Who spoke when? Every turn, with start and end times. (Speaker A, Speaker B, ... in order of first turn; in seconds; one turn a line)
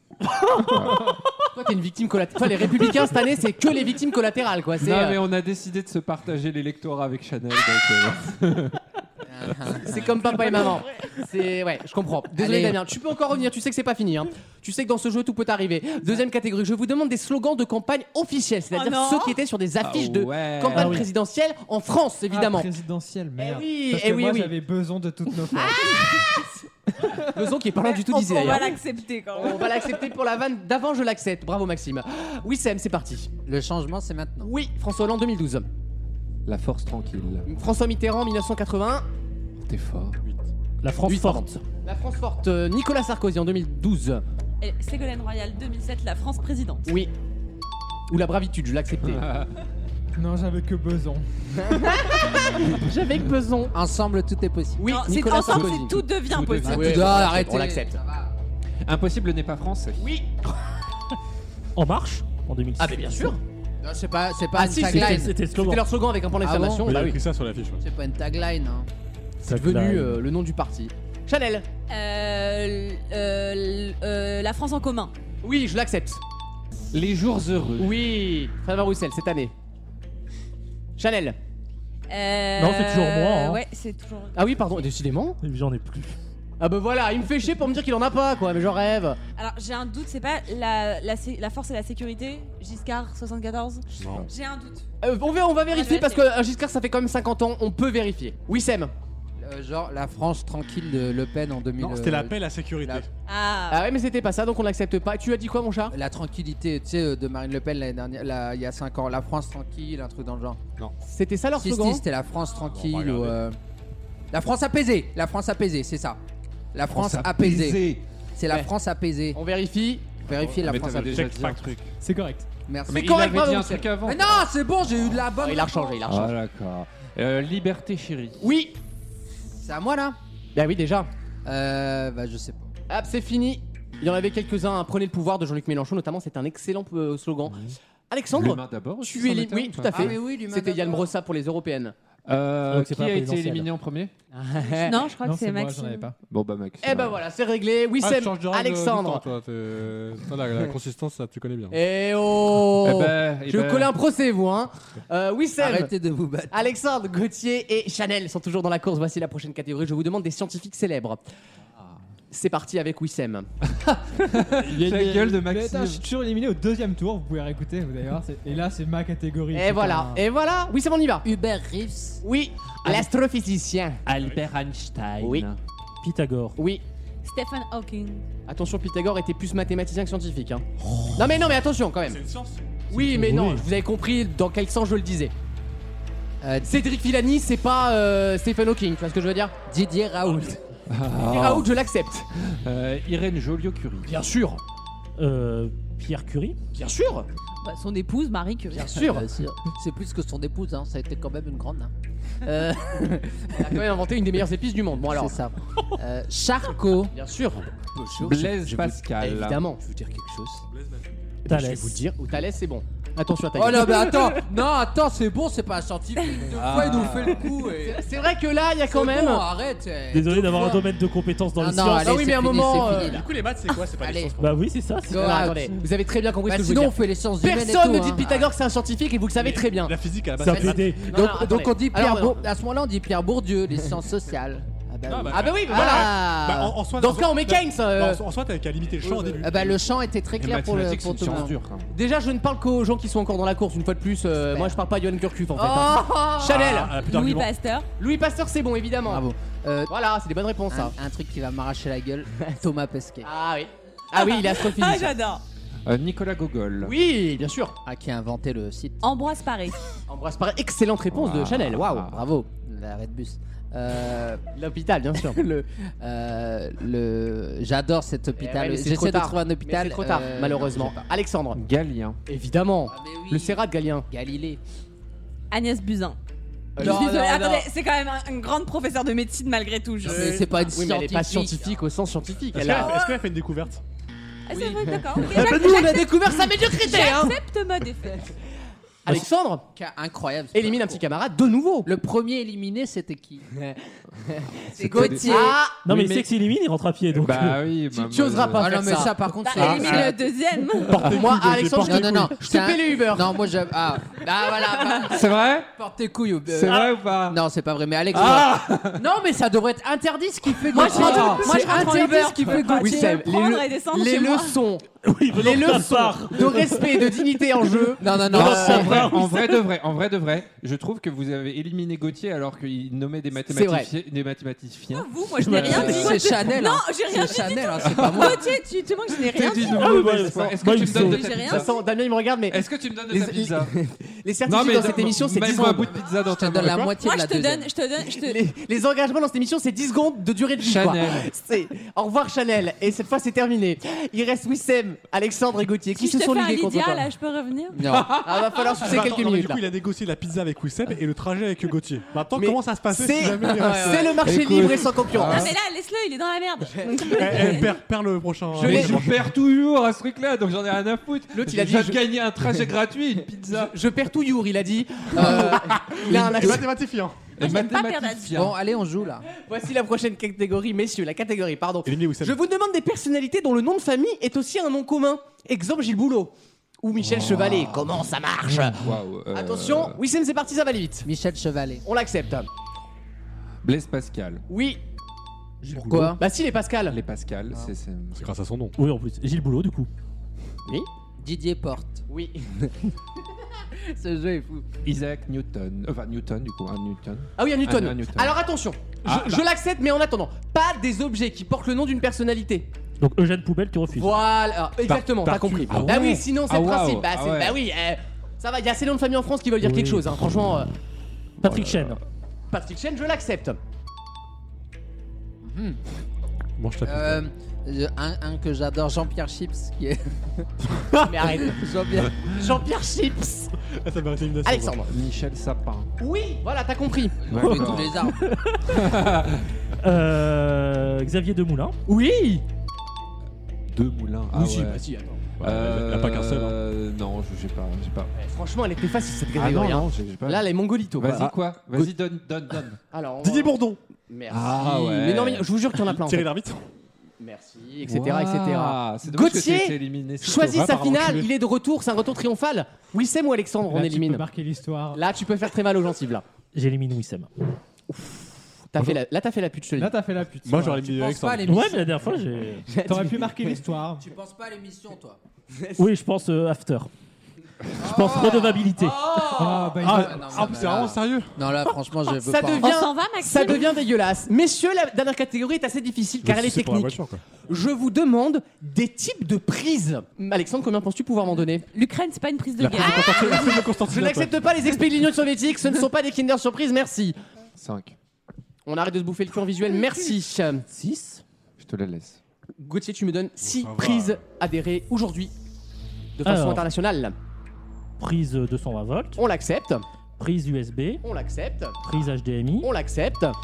Speaker A: 0.4-1.2
Speaker B: 1.5-5.2
Speaker A: 4.8-8.8
Speaker C: 9.3-10.0
Speaker B: 9.8-22.8
Speaker C: 12.3-12.8
Speaker D: 18.7-19.4
Speaker A: 19.8-21.1
Speaker E: 20.7-21.1
Speaker F: 22.3-26.2
Speaker B: 23.4-24.6
Speaker B: 25.5-25.8
Speaker D: 25.8-26.4
Speaker F: 27.0-27.3
Speaker B: 27.3-28.8
Speaker D: 27.8-29.8
Speaker B: 29.4-33.3
Speaker C: 33.5-34.5
Speaker B: 34.4-35.7
Speaker A: 36.5-37.5
Speaker B: 37.5-39.0
Speaker A: 39.6-40.2
Speaker G: 40.2-40.5
Speaker E: 40.8-41.6
Speaker B: 41.0-44.2
Speaker D: 44.6-46.9
Speaker B: 46.9-47.1
Speaker B: 48.1-49.2
Speaker A: 49.0-49.5
Speaker F: 50.2-52.2
Speaker B: 51.8-53.7
Speaker C: 53.7-54.9
Speaker B: 54.8-56.0
Speaker D: 54.8-57.3
Speaker A: 55.4-55.7
Speaker A: 56.3-57.1
Speaker C: 56.6-58.3
Speaker B: 56.6-58.0
Speaker A: 58.9-60.1
Speaker B: 60.0-60.3
Speaker E: 61.8-63.3
Speaker B: 62.8-63.4
Speaker C: 63.8-65.3
Speaker B: 64.5-67.2
Speaker E: 64.7-65.8
Speaker C: 66.4-67.1
Speaker G: 66.8-67.8
Speaker C: 67.8-68.9
Speaker B: 69.4-71.7
Speaker E: 69.5-70.2
Speaker D: 71.9-75.1
Speaker B: 75.4-76.2
Speaker A: 76.9-78.1
Speaker B: 77.8-79.5
Speaker B: 81.0-81.4
Speaker D: 82.1-84.4
Speaker E: 82.6-83.6
Speaker B: 84.3-85.4
Speaker E: 85.4-86.2
Speaker B: 86.6-89.2
Speaker D: 89.4-94.9
Speaker G: 94.0-94.3
Speaker B: 95.0-98.9
Speaker D: 95.7-96.2
Speaker C: 99.4-103.0
Speaker G: 101.8-103.1
Speaker D: 103.3-103.9
Speaker B: 103.7-105.9
Speaker C: 105.9-110.6
Speaker B: 111.0-112.0
Speaker C: 111.6-113.6
Speaker G: 112.7-113.4
Speaker C: 114.3-116.2
Speaker C: 116.7-117.8
Speaker A: 116.9-118.0
Speaker C: 118.4-119.4
Speaker B: 119.3-120.2
Speaker C: 120.2-121.3
Speaker A: 120.3-121.9
Speaker G: 120.9-121.8
Speaker F: 122.0-122.5
Speaker C: 122.7-123.1
Speaker B: 122.9-123.9
Speaker A: 122.9-124.5
Speaker C: 124.0-126.0
Speaker B: 125.4-126.3
Speaker A: 126.1-128.5
Speaker B: 128.4-128.8
Speaker C: 129.6-130.2
Speaker B: 130.5-131.1
Speaker C: 131.4-132.7
Speaker B: 132.9-141.9
Speaker A: 137.5-137.8
Speaker A: 138.3-140.2
Speaker C: 139.9-141.1
Speaker A: 142.3-144.1
Speaker E: 142.7-143.7
Speaker B: 144.3-145.1
Speaker D: 144.8-146.1
Speaker F: 145.2-146.2
Speaker A: 146.3-147.2
Speaker B: 146.8-149.2
Speaker G: 148.0-151.8
Speaker B: 151.7-155.9
Speaker A: 152.8-153.9
Speaker C: 155.6-156.7
Speaker B: 156.5-161.2
Speaker B: 162.3-163.5
Speaker A: 163.7-166.1
Speaker F: 164.6-170.2
Speaker B: 169.5-171.2
Speaker C: 171.2-172.2
Speaker B: 172.2-174.0
Speaker A: 174.1-175.6
Speaker B: 175.2-175.5
Speaker E: 176.0-176.6
Speaker B: 176.6-176.8
Speaker D: 177.2-178.2
Speaker B: 178.5-180.7
Speaker B: 181.2-182.2
Speaker G: 182.1-182.8
Speaker B: 182.9-185.3
Speaker E: 182.9-183.6
Speaker C: 186.4-186.8
Speaker B: 186.6-189.5
Speaker C: 189.7-190.6
Speaker A: 190.9-191.7
Speaker B: 191.2-192.3
Speaker A: 192.4-194.1
Speaker B: 194.1-194.6
Speaker E: 195.2-196.6
Speaker B: 196.7-197.3
Speaker D: 197.6-199.0
Speaker B: 198.7-199.3
Speaker C: 198.9-201.9
Speaker C: 202.5-203.7
Speaker B: 203.5-205.3
Speaker C: 205.1-207.1
Speaker B: 207.1-210.7
Speaker C: 207.9-208.5
Speaker A: 208.2-209.6
Speaker G: 210.7-211.1
Speaker B: 211.5-214.4
Speaker E: 211.5-212.0
Speaker C: 213.5-218.1
Speaker A: 216.5-217.5
Speaker B: 217.7-219.4
Speaker C: 218.9-220.8
Speaker E: 220.1-222.3
Speaker B: 220.4-220.8
Speaker C: 221.6-223.3
Speaker B: 221.8-223.3
Speaker G: 222.7-224.6
Speaker C: 224.0-224.3
Speaker E: 224.4-225.6
Speaker C: 225.1-225.7
Speaker B: 225.1-230.0
Speaker C: 226.5-228.3
Speaker G: 229.4-231.1
Speaker E: 230.4-231.0
Speaker B: 230.5-232.4
Speaker C: 230.5-236.7
Speaker G: 235.1-239.8
Speaker B: 235.3-238.2
Speaker B: 239.0-239.4
Speaker C: 239.4-241.6
Speaker A: 240.4-241.9
Speaker B: 241.9-246.9
Speaker C: 244.4-244.8
Speaker D: 245.6-246.3
Speaker C: 245.8-246.4
Speaker G: 246.4-247.5
Speaker D: 247.0-247.9
Speaker B: 248.0-249.2
Speaker C: 249.1-249.9
Speaker B: 249.9-250.9
Speaker C: 250.7-253.3
Speaker B: 253.2-255.2
Speaker D: 254.2-255.4
Speaker A: 255.9-256.9
Speaker B: 256.8-257.8
Speaker C: 257.9-259.0
Speaker D: 259.0-259.8
Speaker B: 260.1-262.1
Speaker A: 261.1-262.2
Speaker C: 262.1-264.4
Speaker B: 264.6-265.7
Speaker C: 266.0-271.1
Speaker B: 268.4-271.6
Speaker A: 271.6-272.2
Speaker B: 272.3-274.1
Speaker C: 272.9-274.6
Speaker D: 275.5-276.2
Speaker B: 276.8-277.6
Speaker C: 276.8-277.6
Speaker D: 276.8-280.5
Speaker C: 280.0-281.8
Speaker B: 280.2-283.0
Speaker G: 282.5-283.8
Speaker D: 284.5-288.3
Speaker C: 284.5-284.9
Speaker B: 285.2-287.4
Speaker B: 289.1-289.6
Speaker C: 289.8-291.0
Speaker B: 290.5-291.9
Speaker C: 291.9-293.5
Speaker C: 294.7-295.5
Speaker A: 294.8-296.3
Speaker D: 294.9-295.6
Speaker B: 295.0-295.8
Speaker E: 295.8-297.6
Speaker A: 297.1-299.0
Speaker B: 297.9-299.1
Speaker C: 298.5-300.2
Speaker D: 299.4-301.1
Speaker G: 299.6-300.2
Speaker G: 300.8-302.4
Speaker B: 301.0-303.4
Speaker C: 301.8-313.2
Speaker D: 304.8-305.0
Speaker A: 305.1-305.7
Speaker A: 306.5-307.4
Speaker E: 306.6-306.9
Speaker A: 308.1-309.0
Speaker D: 310.7-314.6
Speaker B: 310.8-318.9
Speaker A: 310.9-311.4
Speaker E: 315.0-317.1
Speaker C: 318.0-319.1
Speaker A: 318.3-326.4
Speaker E: 318.3-319.2
Speaker B: 323.5-323.9
Speaker D: 324.9-330.1
Speaker C: 325.7-328.4
Speaker A: 327.8-328.4
Speaker A: 329.1-331.7
Speaker E: 329.7-331.2
Speaker B: 330.1-336.0
Speaker D: 330.9-331.8
Speaker A: 332.5-333.7
Speaker A: 334.5-336.9
Speaker C: 336.1-337.7
Speaker D: 336.9-338.4
Speaker B: 338.1-347.1
Speaker A: 340.6-341.3
Speaker D: 346.0-347.8
Speaker C: 347.7-348.3
Speaker A: 347.9-348.8
Speaker B: 347.9-349.6
Speaker G: 348.8-354.4
Speaker B: 352.4-355.6
Speaker C: 353.6-354.1
Speaker A: 354.2-355.4
Speaker C: 354.6-355.4
Speaker D: 355.3-357.8
Speaker B: 356.8-357.6
Speaker G: 357.1-359.2
Speaker B: 358.5-359.1
Speaker A: 358.6-363.8
Speaker B: 361.3-362.0
Speaker B: 363.5-366.8
Speaker C: 365.1-366.7
Speaker G: 365.3-367.3
Speaker A: 367.4-368.6
Speaker D: 367.4-368.4
Speaker C: 368.3-369.3
Speaker B: 369.4-381.1
Speaker G: 371.9-372.4
Speaker A: 377.0-377.9
Speaker A: 378.8-380.0
Speaker C: 381.1-381.8
Speaker B: 381.9-382.5
Speaker A: 383.6-384.4
Speaker B: 384.5-384.8
Speaker E: 385.6-386.1
Speaker C: 385.9-386.2
Speaker B: 385.9-387.0
Speaker A: 386.9-388.3
Speaker G: 388.1-388.8
Speaker E: 388.8-389.9
Speaker C: 391.2-392.1
Speaker B: 392.1-392.7
Speaker C: 393.8-394.6
Speaker A: 394.8-398.4
Speaker B: 397.4-402.7
Speaker A: 399.1-399.4
Speaker E: 403.0-404.2
Speaker B: 403.9-410.7
Speaker G: 404.9-406.2
Speaker A: 405.7-407.6
Speaker E: 409.6-410.1
Speaker E: 411.4-412.0
Speaker A: 411.5-411.8
Speaker B: 412.5-413.6
Speaker C: 415.4-415.8
Speaker G: 416.6-417.2
Speaker C: 416.8-420.5
Speaker G: 420.8-421.1
Speaker B: 421.1-421.6
Speaker C: 421.4-422.4
Speaker B: 422.3-423.5
Speaker G: 423.7-424.8
Speaker B: 424.4-424.9
Speaker A: 424.9-425.9
Speaker B: 426.0-427.3
Speaker C: 427.2-428.2
Speaker A: 427.3-428.0
Speaker E: 427.4-429.0
Speaker A: 428.7-429.4
Speaker E: 429.8-431.8
Speaker B: 431.9-432.4
Speaker A: 433.7-434.8
Speaker B: 434.3-435.3
Speaker G: 435.4-436.6
Speaker A: 435.4-438.1
Speaker B: 438.2-441.9
Speaker A: 439.4-442.8
Speaker B: 442.9-443.6
Speaker G: 443.2-443.8
Speaker B: 444.1-446.3
Speaker A: 444.3-445.5
Speaker G: 445.8-446.6
Speaker B: 447.2-454.3
Speaker A: 447.9-450.7
Speaker G: 450.4-451.3
Speaker F: 453.7-455.0
Speaker B: 454.9-456.2
Speaker E: 456.5-457.3
Speaker B: 457.9-460.0
Speaker F: 459.8-460.9
Speaker G: 460.4-461.7
Speaker C: 460.8-462.0
Speaker E: 461.5-462.7
Speaker B: 462.7-463.6
Speaker F: 462.9-464.1
Speaker C: 464.0-465.2
Speaker B: 465.5-465.8
Speaker E: 465.8-466.9
Speaker E: 467.8-469.0
Speaker C: 467.8-472.8
Speaker B: 468.8-469.6
Speaker F: 469.3-470.5
Speaker G: 469.8-471.3
Speaker B: 472.2-481.6
Speaker D: 472.6-473.7
Speaker G: 476.2-477.2
Speaker D: 481.7-483.6
Speaker G: 482.6-484.4
Speaker B: 483.9-487.2
Speaker A: 487.6-488.0
Speaker B: 488.7-490.6
Speaker E: 490.7-491.2
Speaker A: 491.6-492.2
Speaker B: 492.6-495.3
Speaker G: 493.4-494.2
Speaker B: 496.2-497.1
Speaker E: 496.2-496.6
Speaker E: 498.0-499.2
Speaker B: 499.2-499.9
Speaker E: 500.2-501.0
Speaker B: 501.0-501.8
Speaker E: 501.8-502.7
Speaker B: 502.6-503.4